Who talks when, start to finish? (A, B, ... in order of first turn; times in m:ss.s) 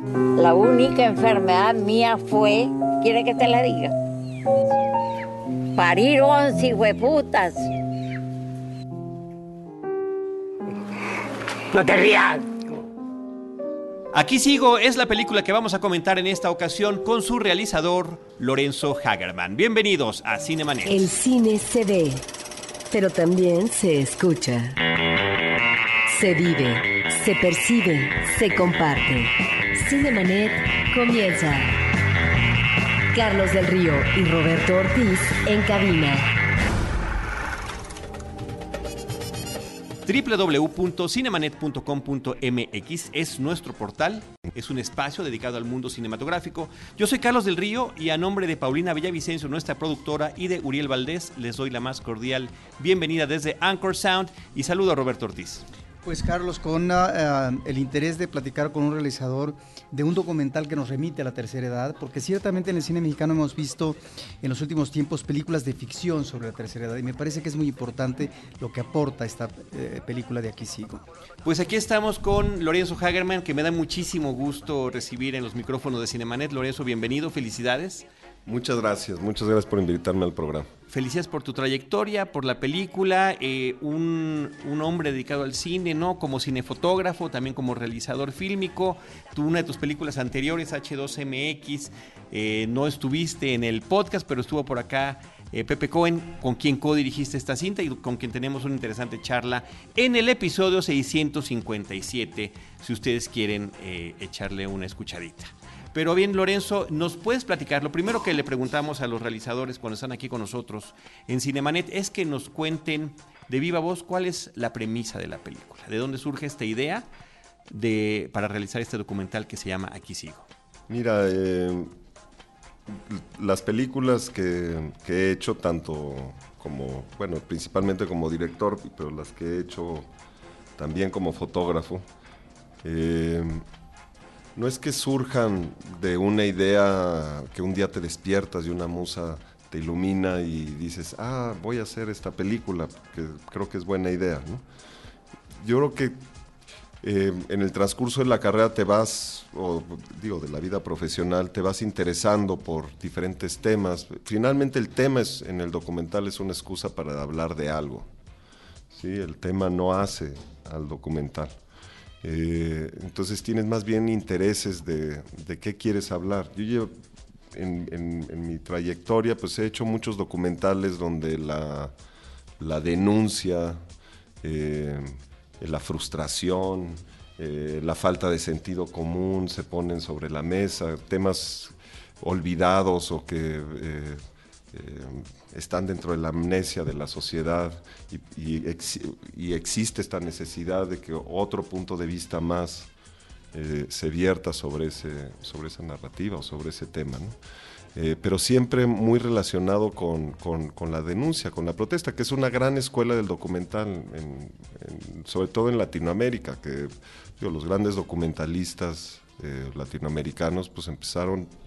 0:00.4-0:03.9 A
0:05.7-0:07.7 A
0:11.7-0:12.6 A
0:14.1-0:21.1 B
0:20.8-0:22.2 C
0:22.9-0:24.8 C
0:26.1-0:31.8 C
0:33.1-0:36.4 C
0:40.0-0:55.6 B
0:56.0-1:11.0 D
1:11.4-1:18.0 B
1:18.4-1:20.7 E
1:20.9-1:57.1 B
1:57.7-2:00.5 B
2:00.9-2:01.9 E
2:02.9-2:10.1 E
2:10.8-2:12.0 E
2:12.8-2:13.6 E
2:14.6-2:24.6 E
2:25.6-2:26.2 E
2:27.0-2:38.1 E
2:38.9-2:41.5 E
2:42.2-2:46.9 E
2:47.5-2:51.9 E
2:52.6-2:53.8 E
2:54.4-3:04.2 E
3:04.7-3:12.9 E
3:13.5-3:17.3 E
3:17.9-3:31.5 E